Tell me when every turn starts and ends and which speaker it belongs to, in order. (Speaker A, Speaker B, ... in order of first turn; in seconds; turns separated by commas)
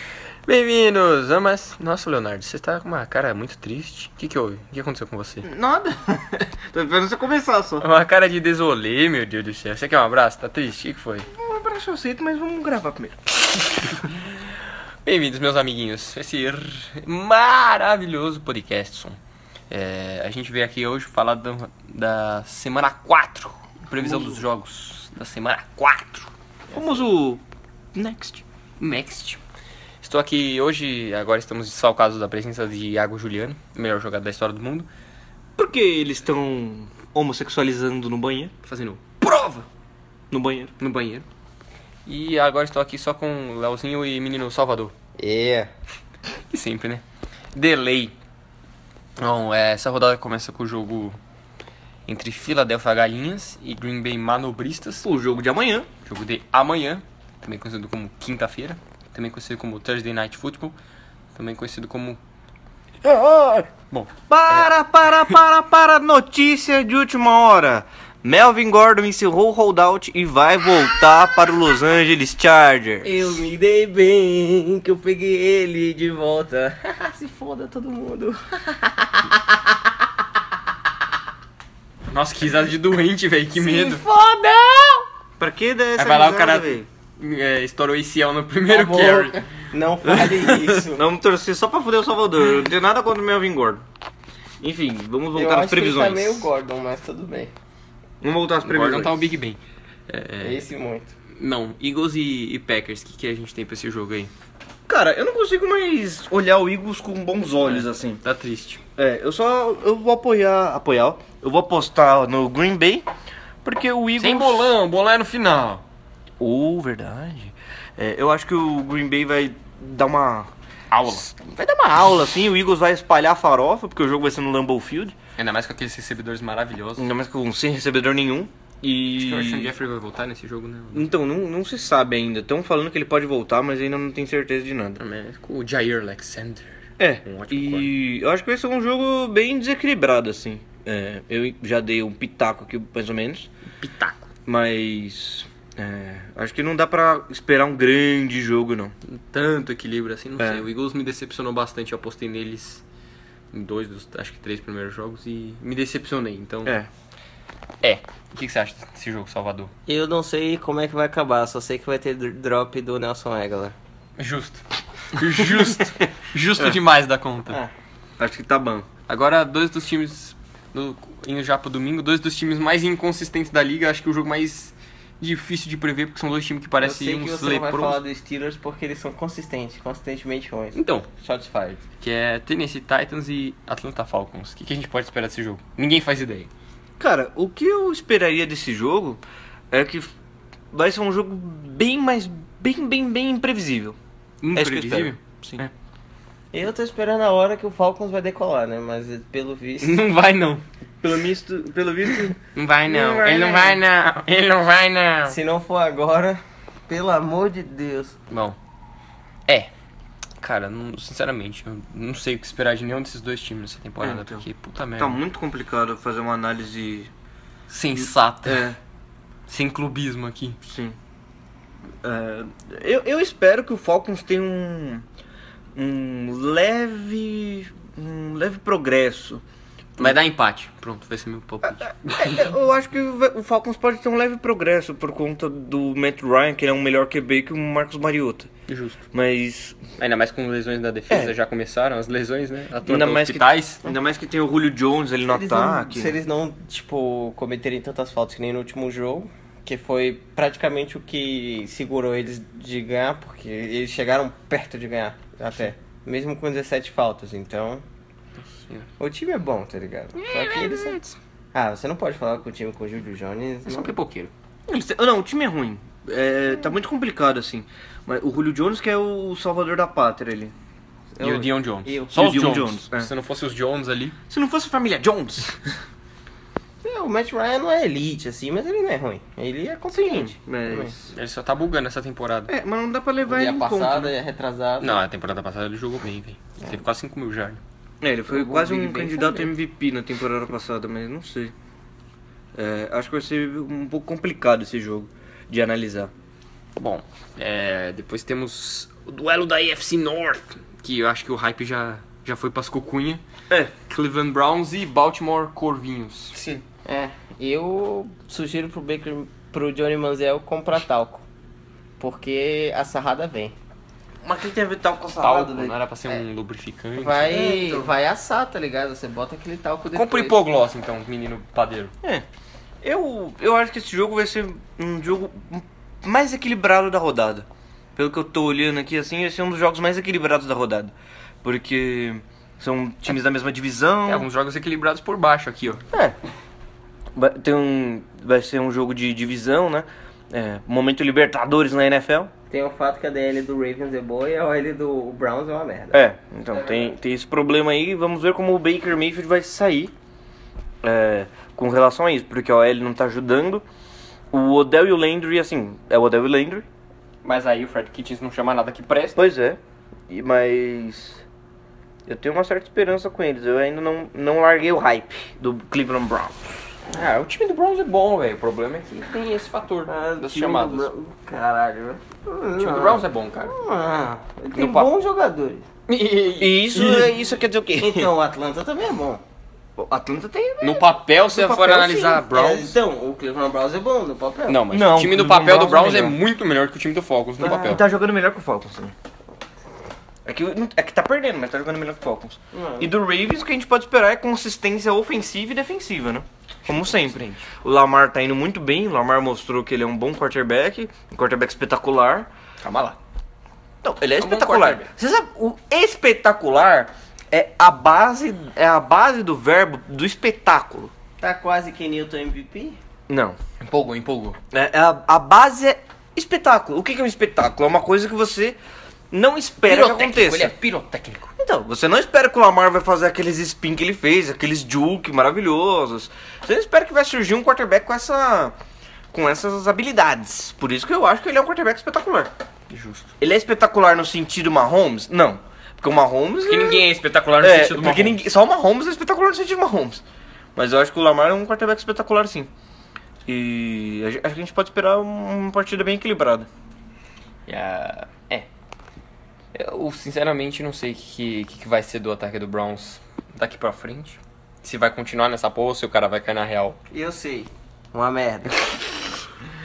Speaker A: 0.5-5.5, Speaker B: 5.4-7.9, Speaker A: 7.8-11.3, Speaker B: 11.3-13.3, Speaker A: 15.0-19.2, Speaker A: 19.7-26.3, Speaker B: 23.9-24.4, Speaker B: 26.7-27.4, Speaker B: 27.9-28.4, Speaker A: 28.8-29.4, Speaker A: 30.0-34.9, Speaker B: 35.6-38.5, Speaker A: 38.6-39.6, Speaker B: 40.3-40.7, Speaker A: 40.8-41.2, Speaker A: 42.0-44.9, Speaker C: 45.2-45.7, Speaker A: 46.5-47.0, Speaker A: 47.5-48.1, Speaker A: 49.2-51.2, Speaker A: 52.1-55.0, Speaker B: 55.0-55.9, Speaker A: 56.0-60.8, Speaker A: 61.3-62.2, Speaker B: 63.0-63.7, Speaker A: 63.9-64.7, Speaker B: 64.3-73.3, Speaker C: 73.0-79.8, Speaker A: 82.1-84.0, Speaker C: 83.5-85.0, Speaker B: 85.4-86.8, Speaker A: 86.0-89.4, Speaker C: 88.7-91.0, Speaker B: 90.4-93.8, Speaker B: 94.6-96.5, Speaker C: 95.3-97.5, Speaker B: 98.2-99.1, Speaker A: 98.6-100.6, Speaker C: 100.4-101.1, Speaker A: 101.3-104.3, Speaker B: 104.9-108.2, Speaker A: 107.6-108.8, Speaker B: 109.0-113.1, Speaker B: 113.6-114.7, Speaker A: 114.2-115.8, Speaker B: 116.4-120.5, Speaker A: 120.9-121.3, Speaker B: 121.1-125.2, Speaker A: 125.4-127.1, Speaker B: 127.0-129.7, Speaker A: 129.1-131.1, Speaker B: 130.9-135.0, Speaker A: 135.0-136.7, Speaker B: 137.0-143.5, Speaker A: 137.2-137.9, Speaker A: 143.8-144.3, Speaker B: 144.5-148.9, Speaker A: 149.1-152.8, Speaker B: 150.4-150.6, Speaker A: 153.5-156.7, Speaker A: 157.8-159.7, Speaker C: 159.9-163.7, Speaker A: 164.2-167.6, Speaker B: 168.2-168.9, Speaker A: 169.1-178.0, Speaker C: 176.8-181.8, Speaker A: 180.7-181.1, Speaker A: 182.0-186.5, Speaker B: 187.0-190.1, Speaker B: 190.7-194.0, Speaker A: 194.4-195.2, Speaker B: 194.5-195.7, Speaker C: 196.5-200.0, Speaker A: 199.8-200.6, Speaker B: 201.0-203.8, Speaker A: 202.5-205.4, Speaker C: 205.2-208.2, Speaker A: 208.3-208.6, Speaker A: 210.4-215.2, Speaker B: 214.0-214.4, Speaker B: 215.0-217.1, Speaker A: 217.7-218.7, Speaker B: 218.0-218.8, Speaker A: 219.5-220.6, Speaker B: 220.6-220.9, Speaker B: 222.0-225.0, Speaker B: 225.8-229.4, Speaker A: 230.0-232.5, Speaker B: 232.0-238.5, Speaker A: 238.7-239.0, Speaker B: 239.1-239.9, Speaker A: 240.0-243.8, Speaker B: 241.1-241.3, Speaker B: 242.8-246.1, Speaker C: 245.2-257.8, Speaker C: 259.0-261.0, Speaker A: 260.1-261.1, Speaker C: 261.5-263.9, Speaker A: 263.6-264.3, Speaker B: 264.7-270.5, Speaker C: 271.1-272.1, Speaker A: 271.2-274.1, Speaker B: 272.1-273.1, Speaker B: 274.3-275.7, Speaker C: 276.8-280.9, Speaker B: 279.9-281.0, Speaker A: 281.1-282.5, Speaker B: 282.5-284.1, Speaker C: 283.3-285.0, Speaker A: 284.8-287.6, Speaker B: 288.0-291.5, Speaker C: 288.3-289.5, Speaker B: 292.5-296.1, Speaker A: 296.8-303.2, Speaker B: 303.5-303.7, Speaker A: 303.8-306.4, Speaker B: 306.3-306.6, Speaker C: 306.9-311.2, Speaker C: 312.0-313.5, Speaker B: 314.2-316.1, Speaker A: 315.2-317.4, Speaker C: 317.0-320.4, Speaker B: 317.3-317.9, Speaker A: 319.9-321.9, Speaker B: 322.8-334.2, Speaker A: 334.1-335.8, Speaker B: 335.9-336.2, Speaker B: 337.1-342.3, Speaker C: 342.5-346.9, Speaker B: 345.9-349.9, Speaker B: 350.8-353.6, Speaker B: 354.3-356.6, Speaker A: 357.2-359.2, Speaker B: 359.1-361.2, Speaker B: 362.1-366.7, Speaker A: 366.9-370.9, Speaker C: 369.9-375.6, Speaker A: 372.6-373.6, Speaker A: 374.5-374.9, Speaker A: 375.9-377.0, Speaker B: 376.4-378.1, Speaker C: 377.8-379.2, Speaker B: 379.8-382.2, Speaker A: 380.6-382.8, Speaker C: 382.2-384.6, Speaker A: 384.5-387.8, Speaker B: 384.7-386.2, Speaker B: 387.4-388.9, Speaker B: 390.2-402.3, Speaker C: 392.5-392.9, Speaker A: 396.7-397.4, Speaker A: 402.6-403.0, Speaker B: 403.8-410.9, Speaker A: 404.2-404.9, Speaker C: 411.2-412.8, Speaker B: 413.1-413.4, Speaker A: 413.6-414.4, Speaker B: 414.5-418.6, Speaker B: 419.1-420.5, Speaker A: 419.7-421.3, Speaker B: 421.4-428.6, Speaker B: 429.1-432.3, Speaker A: 432.7-433.1, Speaker B: 433.2-436.8, Speaker A: 436.4-438.2, Speaker B: 437.4-440.0, Speaker B: 440.6-442.5, Speaker B: 443.2-446.5, Speaker A: 447.5-448.5, Speaker A: 449.5-456.8, Speaker C: 456.9-458.6